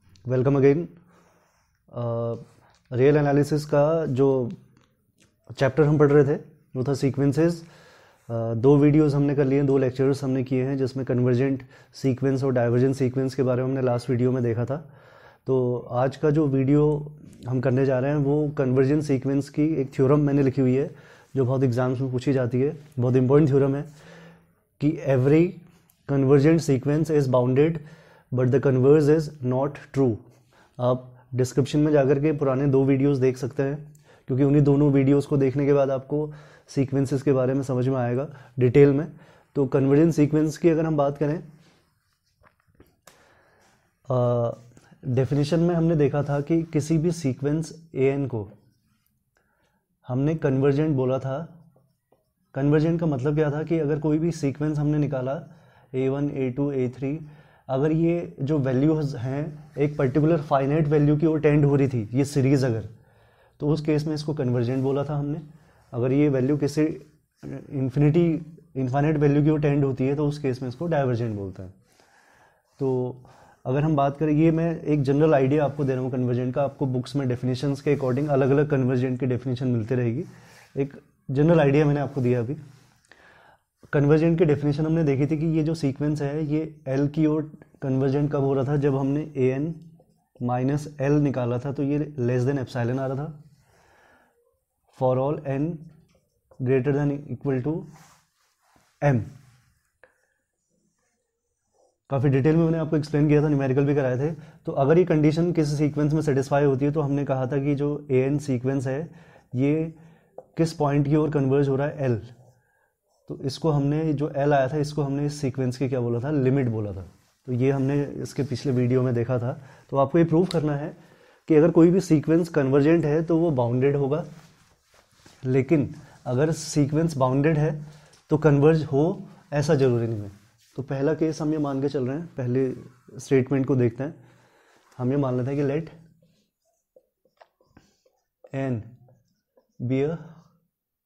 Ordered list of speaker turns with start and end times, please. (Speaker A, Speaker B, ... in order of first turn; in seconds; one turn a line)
Speaker A: 0.2-0.9
Speaker A: 1.9-4.6
Speaker A: 5.6-7.7
Speaker A: 8.3-14.9
Speaker A: 15.5-23.9
Speaker A: 24.8-30.2
Speaker A: 30.8-41.5
Speaker A: 44.1-48.5
Speaker A: 50.0-51.5
Speaker A: 52.5-62.9
Speaker A: 63.6-71.7
Speaker A: 72.8-82.6
Speaker A: 83.9-89.8
Speaker A: 90.4-93.3
Speaker A: 94.9-95.9
Speaker A: 96.6-97.9
Speaker A: 99.0-99.3
Speaker A: 102.1-110.0
Speaker A: 110.6-112.3
Speaker A: 113.3-124.3
Speaker A: 125.4-134.2
Speaker A: 135.0-135.9
Speaker A: 138.5-138.9
Speaker A: 139.8-140.2